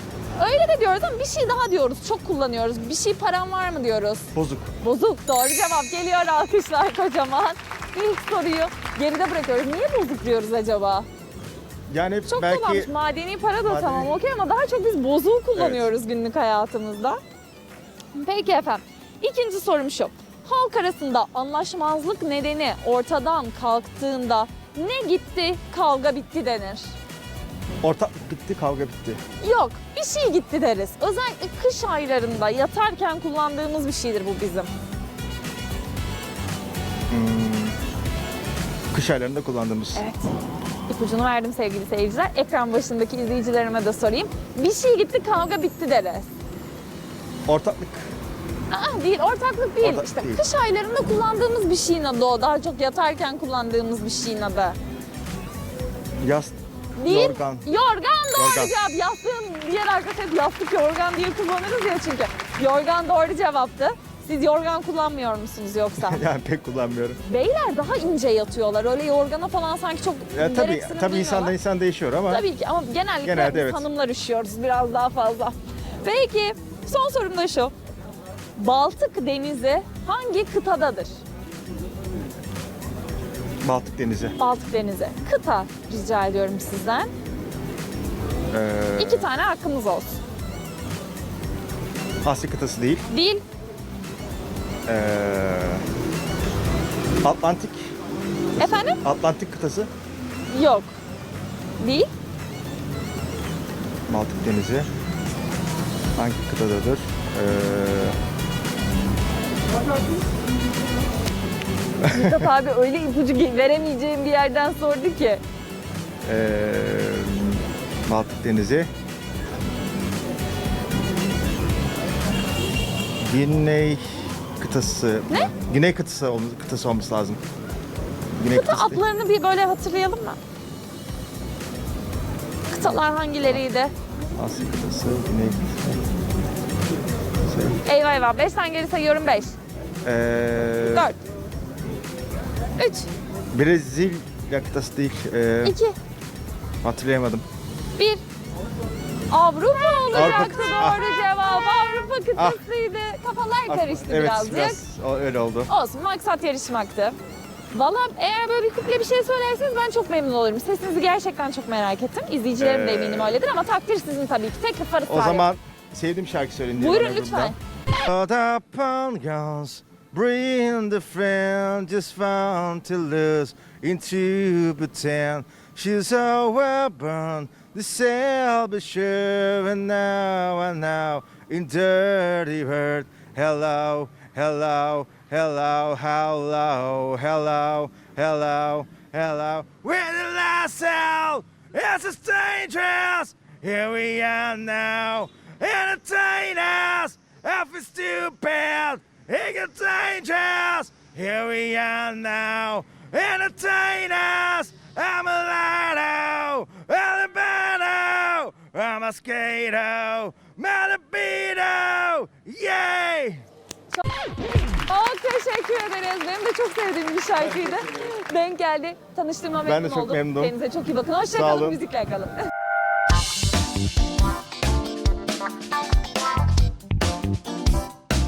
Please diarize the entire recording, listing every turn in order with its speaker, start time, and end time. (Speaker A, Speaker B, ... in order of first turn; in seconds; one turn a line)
Speaker A: 0.4-4.3
Speaker B: 4.3-4.7
Speaker A: 4.8-11.1
Speaker B: 11.9-12.9
Speaker A: 12.3-17.2
Speaker B: 13.7-14.1
Speaker B: 15.6-15.8
Speaker A: 18.1-26.9
Speaker B: 27.8-29.2
Speaker A: 29.4-34.7
Speaker B: 37.1-37.8
Speaker B: 38.9-40.0
Speaker A: 40.0-40.3
Speaker A: 40.9-46.3
Speaker B: 47.5-48.1
Speaker A: 48.7-54.8
Speaker B: 49.8-50.4
Speaker B: 56.2-57.7
Speaker A: 57.0-66.2
Speaker B: 58.4-58.7
Speaker B: 66.0-67.2
Speaker A: 67.2-71.6
Speaker B: 70.3-72.5
Speaker A: 72.3-77.7
Speaker B: 73.2-73.8
Speaker A: 78.6-81.2
Speaker B: 83.6-84.4
Speaker A: 84.4-87.1
Speaker B: 88.5-89.3
Speaker A: 89.0-90.2
Speaker B: 92.2-93.1
Speaker A: 93.1-93.4
Speaker B: 94.9-95.8
Speaker B: 97.2-97.9
Speaker B: 98.6-99.9
Speaker A: 98.6-99.0
Speaker A: 100.5-100.9
Speaker A: 101.8-102.1
Speaker B: 104.1-104.9
Speaker B: 106.2-108.2
Speaker B: 112.0-112.5
Speaker A: 112.1-115.4
Speaker B: 116.2-118.9
Speaker B: 123.2-127.4
Speaker B: 128.4-129.0
Speaker A: 128.5-130.4
Speaker A: 132.7-133.9
Speaker B: 132.8-133.6
Speaker B: 134.4-136.0
Speaker B: 137.4-137.8
Speaker A: 137.8-139.6
Speaker B: 140.0-141.1
Speaker A: 140.9-141.2
Speaker A: 142.8-143.1
Speaker B: 143.5-145.8
Speaker A: 145.6-146.0
Speaker B: 146.8-147.4
Speaker A: 148.0-148.2
Speaker A: 149.3-154.8
Speaker B: 150.1-151.0
Speaker B: 153.7-155.7
Speaker A: 155.7-157.2
Speaker A: 157.7-165.5
Speaker B: 162.6-163.4
Speaker B: 165.1-213.4
Speaker A: 166.8-167.6
Speaker A: 214.8-222.4
Speaker B: 219.7-220.5
Speaker B: 221.3-221.8